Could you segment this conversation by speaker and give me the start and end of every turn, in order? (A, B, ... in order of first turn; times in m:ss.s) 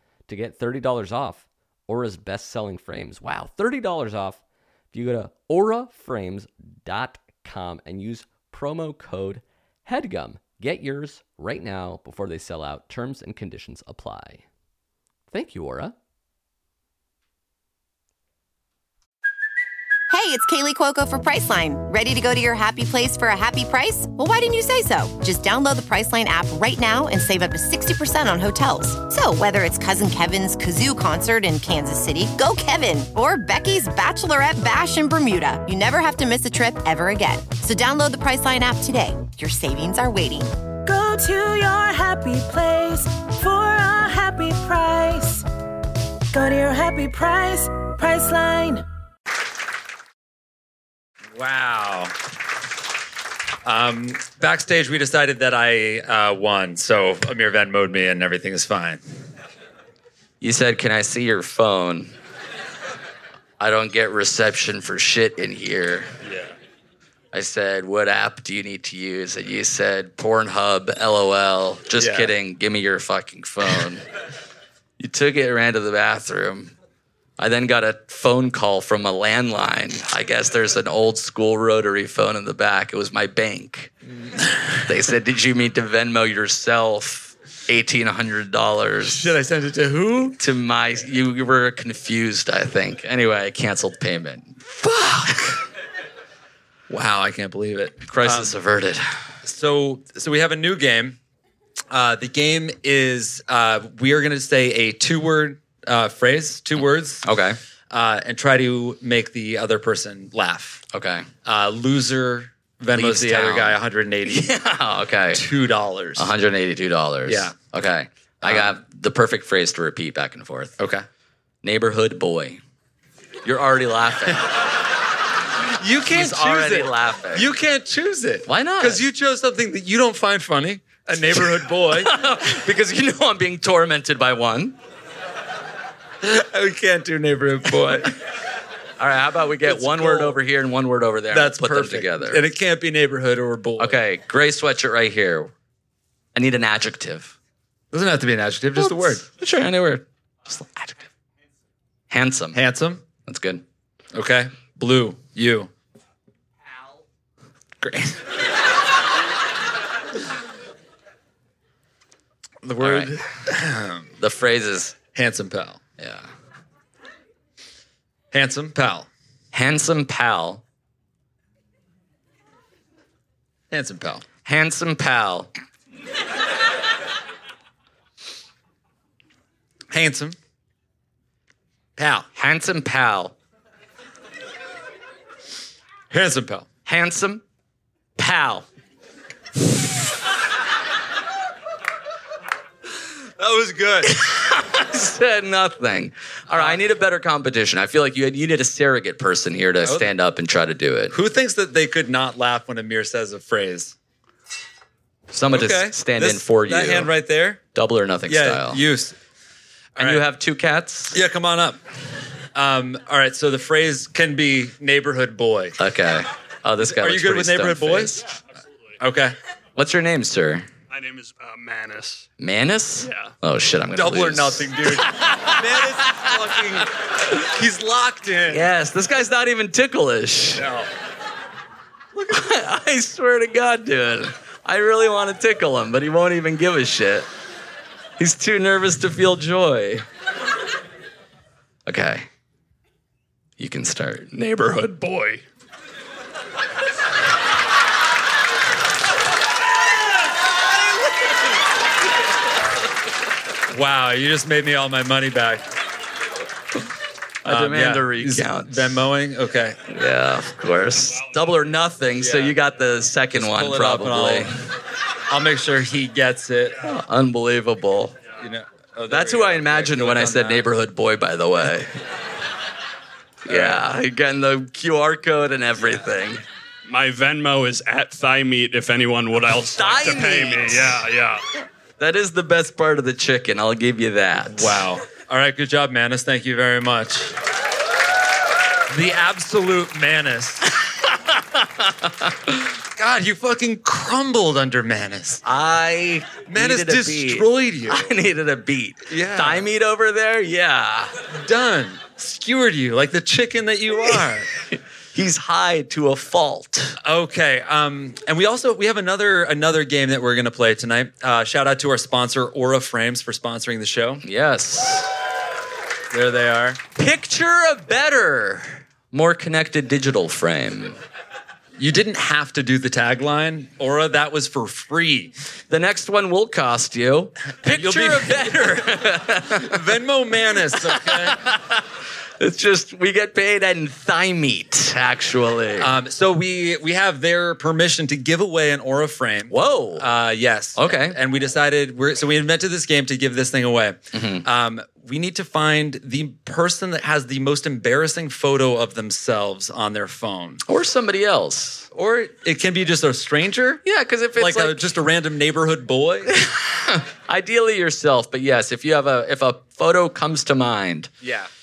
0:00.3-0:14.4 A
0:15.3-0:15.9 A
0:20.1-0:40.5 B
0:40.8-0:45.4 C
0:46.3-0:48.8 C
0:51.3-0:52.1 D
0:53.6-0:59.0 D
1:00.4-1:02.1 E
1:03.6-1:06.1 E
1:06.2-1:06.5 D
1:07.3-1:14.0 E
1:12.0-1:12.3 D
1:15.0-1:16.7 E
1:17.4-1:23.9 E
1:24.8-1:29.3 E
1:29.1-1:30.4 D
1:30.4-1:35.5 E
1:34.8-1:35.4 D
1:36.9-1:38.5 D
1:38.0-1:39.1 E
1:39.4-1:41.2 D
1:41.9-1:47.2 D
1:46.8-1:47.6 E
1:47.9-1:50.8 D
1:50.9-1:51.3 E
1:51.4-1:54.5 D
1:52.9-1:55.5 E
1:55.3-1:56.3 D
1:56.2-2:00.8 E
1:57.3-1:57.5 D
1:58.4-1:58.8 D
2:00.8-2:01.0 D
2:01.6-2:02.6 E
2:03.4-2:04.5 E
2:05.8-2:12.1 D
2:06.1-2:07.5 E
2:08.4-2:09.0 E
2:11.9-2:14.8 E
2:16.2-2:18.2 D
2:19.0-2:22.5 E
2:19.6-2:20.4 D
2:21.3-2:24.0 D
2:23.8-2:25.5 E
2:26.3-2:27.3 E
2:27.9-2:29.2 D
2:28.8-2:31.1 E
2:32.1-2:32.6 E
2:32.5-2:33.0 D
2:33.2-2:33.6 E
2:34.1-2:35.7 D
2:37.8-2:38.2 D
2:42.6-2:44.1 D
2:42.8-2:43.2 E
2:44.2-2:45.0 E
2:45.1-2:45.8 D
2:46.0-2:46.3 E
2:48.3-2:49.1 D
2:49.5-2:50.6 E
2:53.7-2:54.2 D
2:54.4-2:55.5 E
2:59.9-3:00.4 D
3:02.0-3:02.3 D
3:02.3-3:03.3 E
3:06.1-3:06.7 D
3:06.8-3:07.4 E
3:08.2-3:08.6 E
3:13.4-3:14.1 D
3:14.0-3:21.2 E
3:16.5-3:16.8 D
3:19.8-3:20.1 D
3:21.1-3:23.9 D
3:25.3-3:27.1 E
3:25.5-3:27.6 D
3:27.7-3:28.8 E
3:28.3-3:29.2 D
3:30.0-3:31.2 E
3:30.0-3:30.2 D
3:31.1-3:31.8 D
3:32.5-3:35.8 D
3:35.8-3:38.2 E
3:36.8-3:38.2 D
3:39.0-3:39.4 D
3:39.8-3:40.7 E
3:40.9-3:42.2 F
3:42.4-3:46.3 E
3:43.9-3:48.7 D
3:48.5-3:50.6 E
3:50.6-3:50.9 D
3:52.3-3:57.3 E
3:58.2-4:00.0 E
4:01.8-4:02.3 E
4:03.6-4:05.4 E
4:13.7-4:15.6 D
4:17.4-4:19.0 E
4:17.4-4:19.8 D
4:19.9-4:24.5 E
4:22.2-4:22.6 D
4:23.3-4:24.5 D
4:25.3-4:26.8 D
4:26.8-4:28.2 E
4:28.4-4:30.6 D
4:29.1-4:31.9 E
4:33.4-4:36.4 E
4:33.5-4:33.8 D
4:36.9-4:41.4 F
4:39.7-4:41.0 E
4:42.0-4:44.8 E
4:44.5-4:47.3 D
4:48.9-4:50.7 D
4:50.8-4:52.6 E
4:53.0-4:55.4 D
4:55.4-5:01.1 E
4:56.5-4:58.1 D
4:59.1-4:59.7 D
5:01.4-5:04.5 D
5:04.0-5:07.0 E
5:07.0-5:14.2 D
5:14.2-5:15.1 E
5:16.1-5:16.8 D
5:17.0-5:21.0 E
5:21.8-5:25.3 D
5:25.7-5:29.8 E
5:27.6-5:31.4 D
5:30.7-5:31.8 E
5:32.4-5:35.9 E
5:35.8-5:50.6 D
5:39.5-5:40.1 E
5:40.8-5:41.2 E
5:44.1-5:44.4 E
5:50.6-5:51.9 E
5:51.9-5:53.8 D
5:53.8-5:54.9 E
5:54.4-5:56.3 D
5:56.3-6:01.1 E
6:01.2-6:01.5 D